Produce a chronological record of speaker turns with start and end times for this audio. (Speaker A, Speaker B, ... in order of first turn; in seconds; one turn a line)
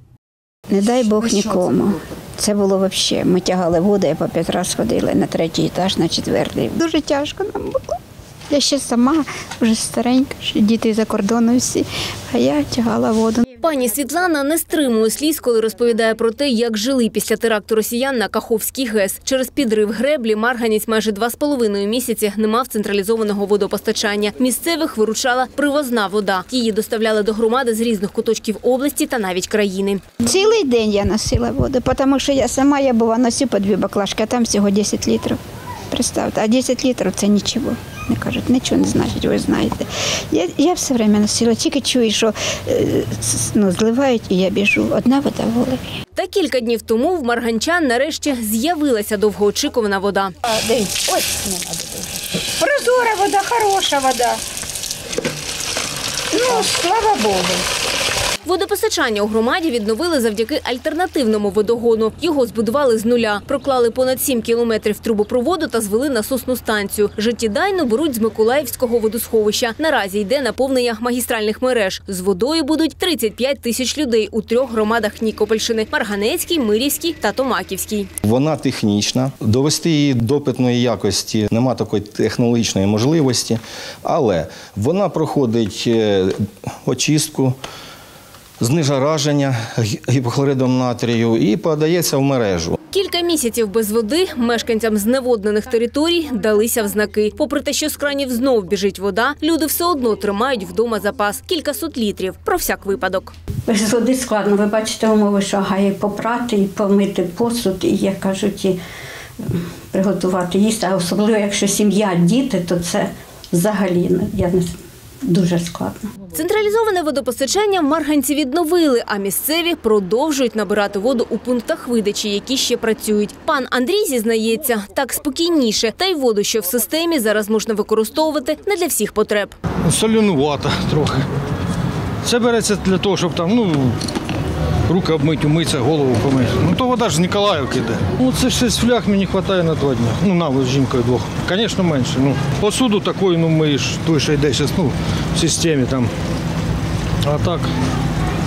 Speaker A: 0.7-7.8
Speaker A: 8.5-13.4
Speaker B: 13.6-30.0
Speaker A: 30.2-35.4
Speaker A: 35.9-45.9
Speaker B: 46.1-50.3
Speaker A: 50.5-52.0
Speaker A: 52.6-54.4
Speaker A: 56.5-57.6
Speaker B: 58.4-78.1
Speaker C: 78.2-86.3
Speaker C: 86.8-87.6
Speaker C: 88.6-92.8
Speaker B: 92.9-103.3
Speaker D: 103.7-108.8
Speaker D: 109.5-114.6
Speaker D: 115.3-115.9
Speaker B: 116.3-129.5
Speaker E: 129.8-131.2
Speaker E: 132.2-134.0
Speaker E: 134.9-146.1
Speaker E: 147.2-147.7